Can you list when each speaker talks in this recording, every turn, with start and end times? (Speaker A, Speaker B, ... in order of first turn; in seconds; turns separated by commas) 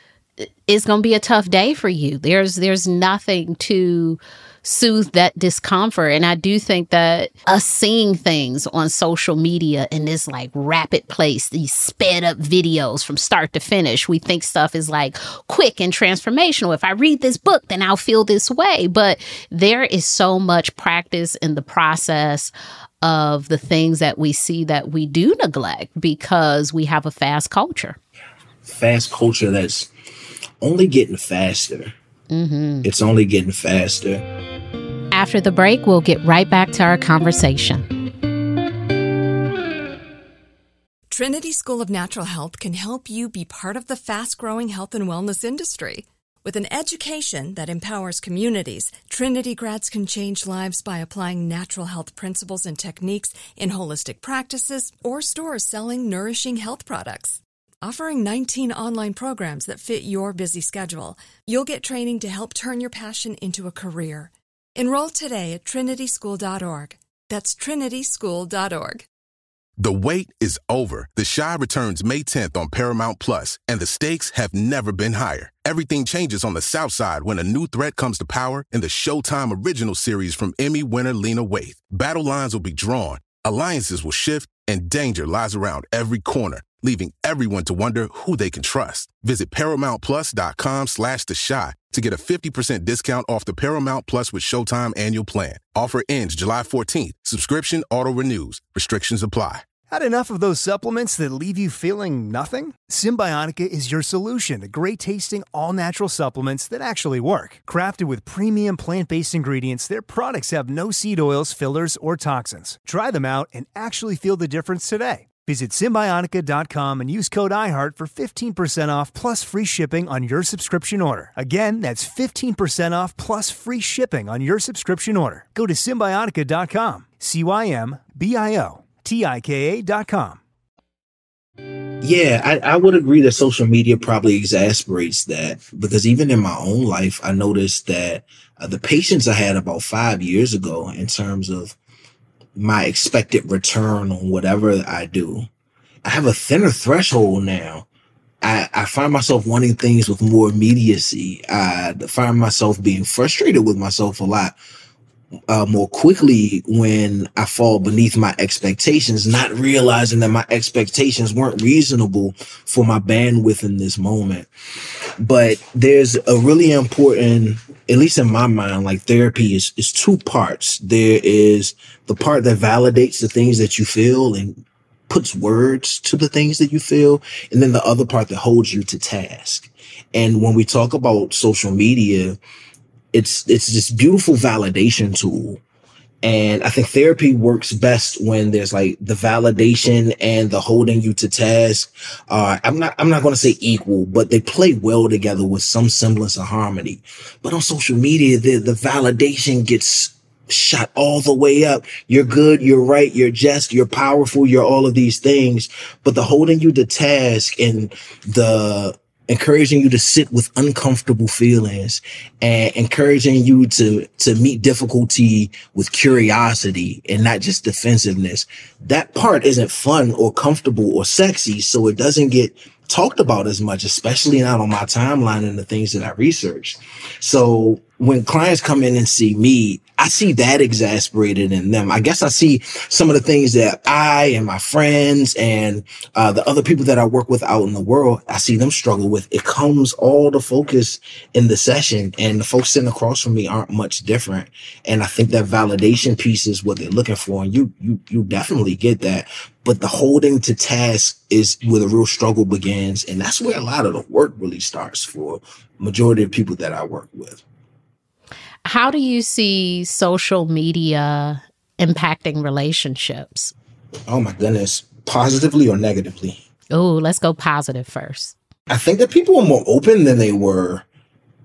Speaker A: 0.7-28.0, Speaker B: 28.6-29.9, Speaker B: 30.6-31.9, Speaker A: 32.3-32.9, Speaker B: 32.8-34.2, Speaker A: 35.1-37.9, Speaker C: 41.1-69.1, Speaker D: 69.8-99.7, Speaker E: 99.9-130.4, Speaker B: 132.0-141.8, Speaker B: 142.6-145.5, Speaker B: 146.0-147.9, Speaker B: 148.4-154.6, Speaker B: 155.5-164.5, Speaker B: 165.2-182.4, Speaker B: 183.1-185.6, Speaker B: 186.2-257.4, Speaker A: 258.6-263.5, Speaker B: 264.1-266.4, Speaker A: 266.7-268.4, Speaker B: 268.7-270.9